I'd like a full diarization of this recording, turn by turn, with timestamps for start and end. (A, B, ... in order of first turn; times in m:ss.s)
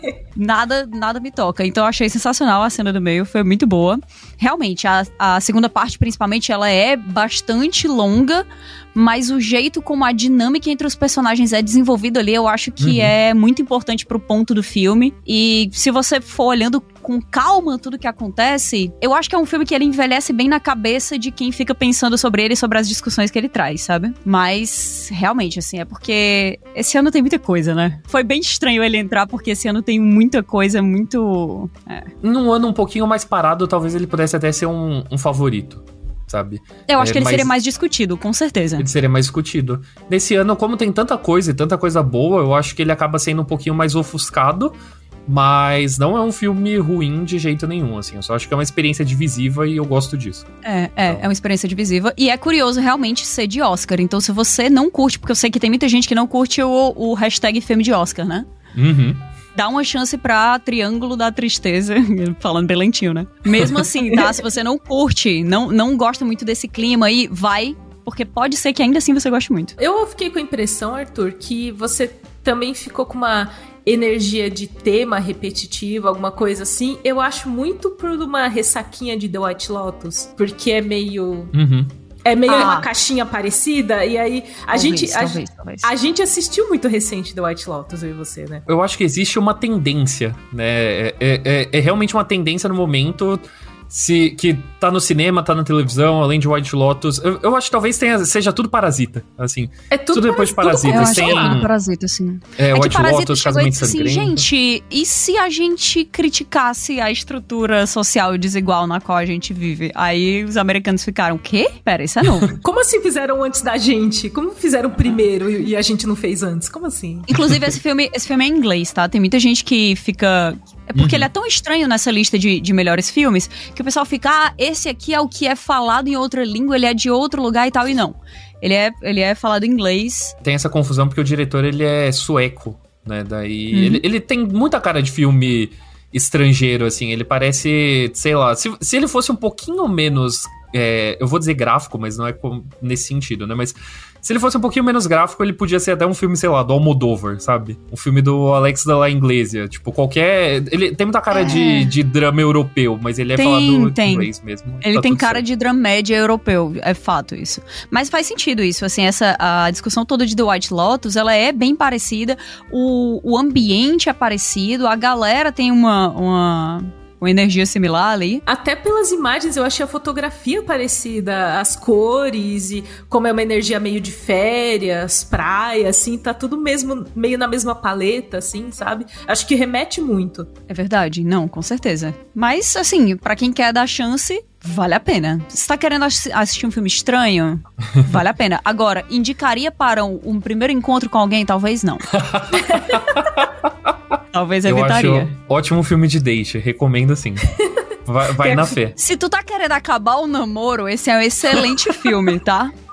0:00.4-0:32.1 A
0:12.8-0:13.1 B
0:32.2-0:37.5 B
0:36.9-0:38.9 A
0:38.8-0:44.8 B
0:45.3-0:50.5 B
0:50.6-0:58.5 A
0:58.8-0:59.2 B
0:59.6-1:09.8 A
1:09.8-1:21.5 C
1:21.5-1:21.9 B
1:22.2-1:28.6 C
1:22.5-1:22.9 A
1:24.7-1:25.9 A
1:28.7-1:41.7 B
1:39.9-1:41.6 C
1:40.9-1:52.5 A
1:42.6-1:44.5 B
1:52.6-1:57.3 C
1:57.3-2:10.3 A
2:01.0-2:01.3 B
2:10.4-2:35.4 B
2:13.7-2:14.0 A
2:31.3-2:31.9 A
2:33.4-2:34.3 A
2:34.8-2:48.4 A
2:48.5-3:00.5 C
3:00.7-3:12.1 A
3:12.1-3:13.5 B
3:12.7-3:13.0 C
3:14.3-3:15.3 A
3:14.6-3:17.5 B
3:18.1-3:19.0 B
3:18.4-3:18.8 C
3:19.0-3:22.7 A